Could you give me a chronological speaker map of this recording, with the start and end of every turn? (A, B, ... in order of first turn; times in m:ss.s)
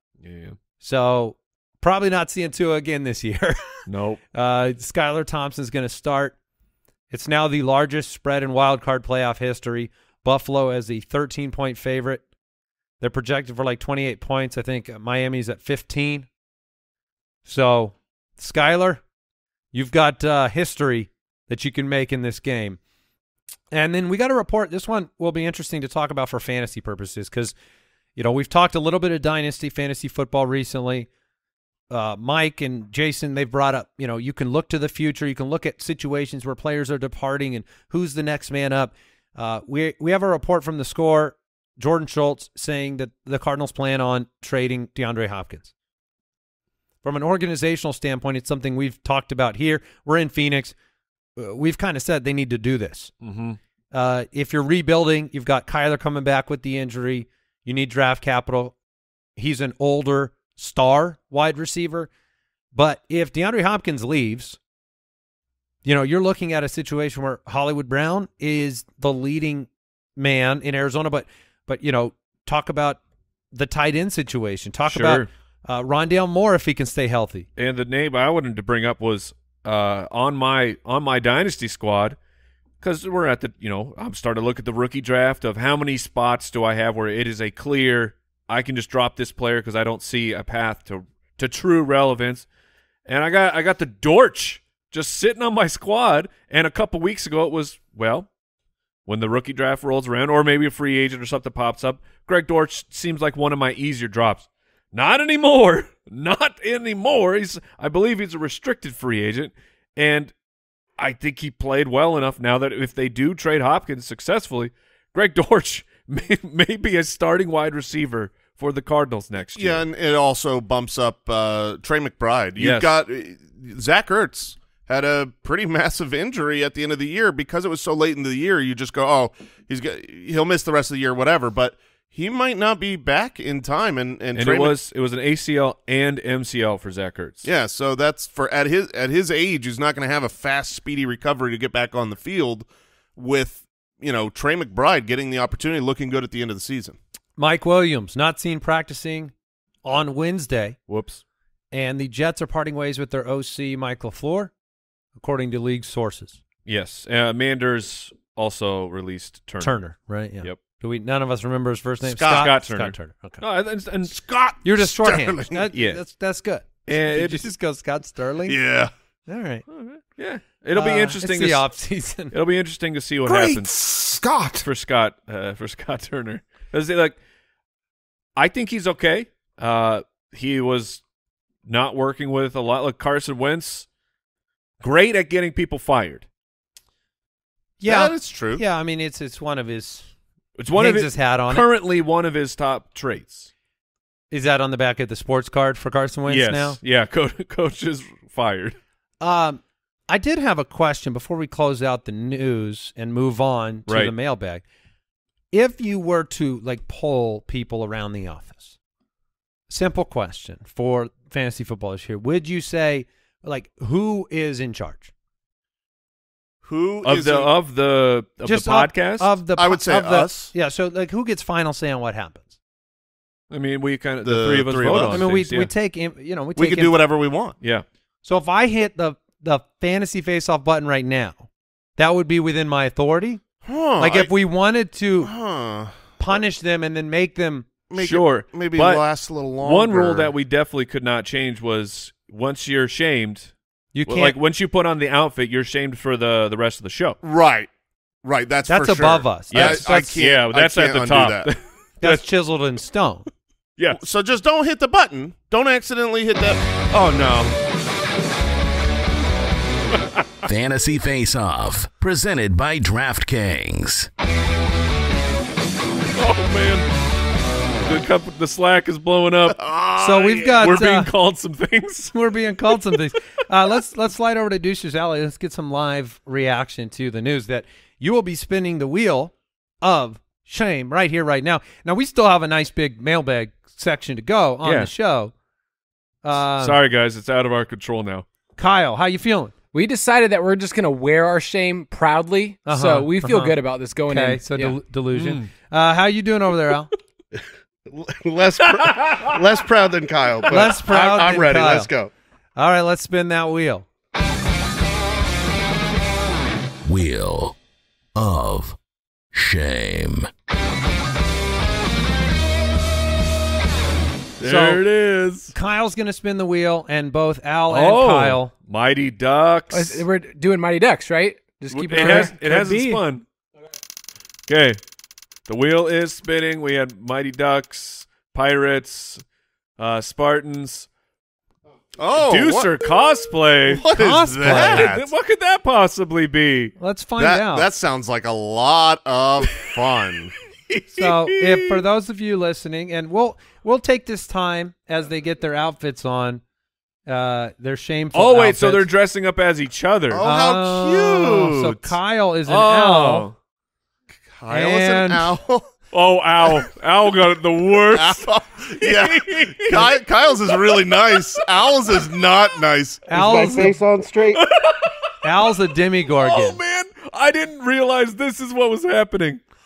0:00.2-0:00.6 A
0:00.8-0:03.8 B
0:03.9-0:04.2 A
0:04.3-0:06.4 B
0:07.1-0:12.2 B
0:13.0-0:16.3 B
0:17.5-0:19.0 B
0:19.7-0:22.8 B
0:23.7-0:27.6 B
0:28.2-0:31.1 B
0:31.9-0:45.7 B
0:47.0-0:50.8 B
0:51.4-0:53.1 B
0:53.2-0:53.6 A
0:53.9-0:58.8 B
0:59.4-1:02.1 B
1:02.7-1:04.6 B
1:05.8-1:13.0 B
1:13.5-1:17.5 B
1:14.9-1:15.3 A
1:17.6-1:22.2 A
1:22.8-1:32.5 A
1:33.1-1:38.3 A
1:39.1-1:50.3 A
1:51.0-1:59.8 A
1:59.6-2:14.8 C
2:02.6-2:02.9 A
2:14.4-2:17.4 A
2:17.4-2:27.0 C
2:27.4-2:29.3 B
2:29.8-2:30.8 B
2:30.9-2:31.2 A
2:31.7-2:34.5 B
2:35.2-2:36.4 B
2:36.7-2:39.8 A
2:39.6-2:43.4 B
2:42.1-2:42.5 C
2:42.2-2:44.1 A
2:44.1-2:45.7 C
2:44.6-2:48.6 B
2:45.7-2:46.0 A
2:46.9-2:47.5 A
2:48.5-2:48.9 C
2:49.3-2:49.6 B
2:49.7-2:51.7 A
2:50.7-2:52.3 B
2:52.3-2:53.7 A
2:53.3-2:54.6 C
2:54.6-2:57.2 A
2:58.4-3:01.0 A
3:01.7-3:03.9 A
3:04.8-3:06.3 A
3:07.8-3:10.1 B
3:07.8-3:08.6 C
3:10.6-3:13.5 A
3:10.8-3:11.6 B
3:14.3-3:16.8 B
3:16.3-3:18.8 A
3:19.2-3:24.6 B
3:23.9-3:24.1 A
3:25.5-3:28.8 B
3:29.7-3:35.1 B
3:36.6-3:37.5 C
3:37.0-3:39.4 A
3:38.4-3:42.6 B
3:39.6-3:40.5 C
3:43.5-3:45.7 A
3:44.2-3:45.3 C
3:44.9-3:47.0 B
3:46.6-3:47.6 C
3:47.6-3:47.9 A
3:48.2-3:53.4 B
3:53.6-3:54.3 C
3:54.0-3:55.3 B
3:55.2-3:56.2 C
3:56.2-3:57.7 B
3:57.9-4:00.3 C
3:58.0-3:59.0 A
3:59.6-4:03.5 A
4:04.0-4:04.4 B
4:04.1-4:07.2 A
4:07.2-4:07.7 C
4:08.2-4:11.5 C
4:08.7-4:10.2 B
4:09.5-4:12.2 A
4:12.0-4:13.3 B
4:13.9-4:17.6 C
4:20.5-4:24.1 D
4:26.2-4:26.9 A
4:27.8-4:29.6 A
4:29.6-4:30.6 C
4:30.0-4:31.1 B
4:30.4-4:32.2 A
4:32.1-4:45.3 B
4:44.6-4:44.9 A
4:46.2-4:46.8 B
4:46.6-4:48.2 A
4:48.6-4:49.5 B
4:49.7-4:54.8 E
4:52.7-4:53.6 B
4:54.1-4:56.9 B
4:55.1-4:55.5 A
4:57.4-5:02.1 F
4:58.8-4:59.3 A
5:00.5-5:01.9 B
5:02.6-5:03.9 B
5:06.9-5:07.6 D
5:08.2-5:08.8 D
5:09.3-5:10.3 D
5:14.4-5:15.5 A
5:14.4-5:14.8 B
5:15.5-5:18.5 B
5:17.7-5:20.0 A
5:19.7-5:23.0 E
5:21.7-5:23.2 A
5:21.9-5:22.3 B
5:24.5-5:24.8 A
5:25.5-5:29.2 A
5:29.8-5:30.9 A
5:32.0-5:32.9 C
5:32.3-5:33.8 A
5:33.7-5:35.1 C
5:33.9-5:34.9 B
5:34.4-5:36.8 A
5:36.8-5:37.7 B
5:37.2-5:40.4 C
5:40.7-5:41.8 A
5:40.9-5:46.4 B
5:47.1-5:48.9 B
5:48.1-5:50.2 A
5:50.1-5:52.0 C
5:50.2-5:53.3 B
5:52.5-5:53.4 A
5:54.3-5:55.7 C
5:54.5-5:55.4 B
5:55.9-5:58.2 A
5:57.9-6:03.1 C
5:58.8-6:00.0 A
6:03.1-6:03.8 B
6:03.1-6:04.4 F
6:04.4-6:04.9 A
6:05.2-6:06.6 B
6:06.2-6:09.4 A